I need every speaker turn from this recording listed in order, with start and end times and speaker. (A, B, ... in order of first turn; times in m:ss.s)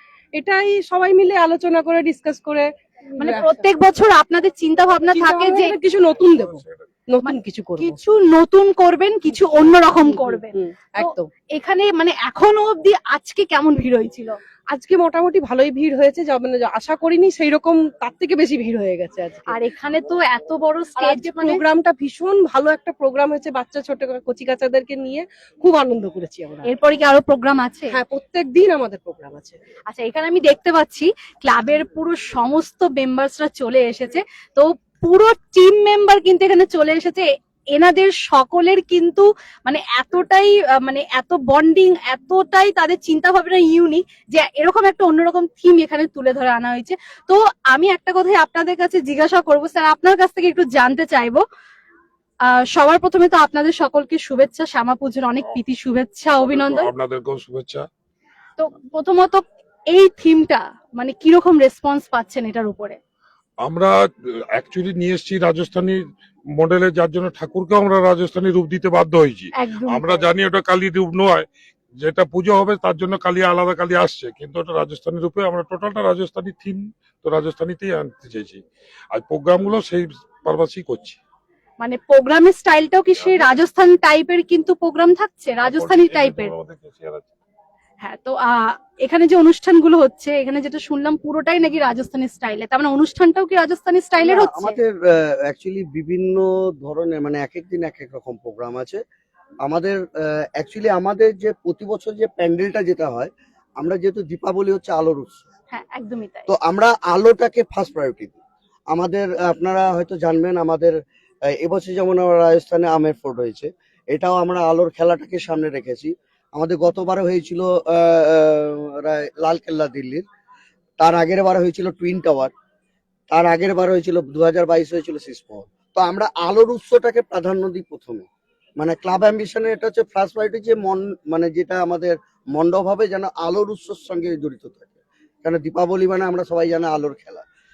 0:00.4-0:03.7 A
0:03.2-0:05.8 B
0:05.1-0:08.0 A
0:06.4-0:06.8 C
0:07.2-0:14.4 B
0:09.3-0:11.3 A
0:14.7-0:19.6 A
0:19.5-0:21.6 B
0:21.0-0:26.7 A
0:26.6-0:28.0 B
0:27.9-0:29.6 A
0:29.9-0:51.4 B
0:52.5-0:56.9 B
0:56.4-0:57.9 C
0:58.6-1:03.0 B
1:03.6-1:03.9 C
1:04.5-1:06.0 C
1:06.6-1:11.5 C
1:09.6-1:10.3 B
1:12.0-1:18.6 C
1:19.1-1:21.2 C
1:21.8-1:26.5 B
1:23.2-1:23.6 C
1:25.6-1:27.3 C
1:28.0-1:34.8 B
1:34.2-1:39.0 D
1:39.6-1:45.4 D
1:45.7-1:46.5 B
1:46.5-1:51.0 D
1:51.5-2:00.2 D
2:01.0-2:02.5 D
2:03.3-2:08.3 D
2:08.8-2:17.4 D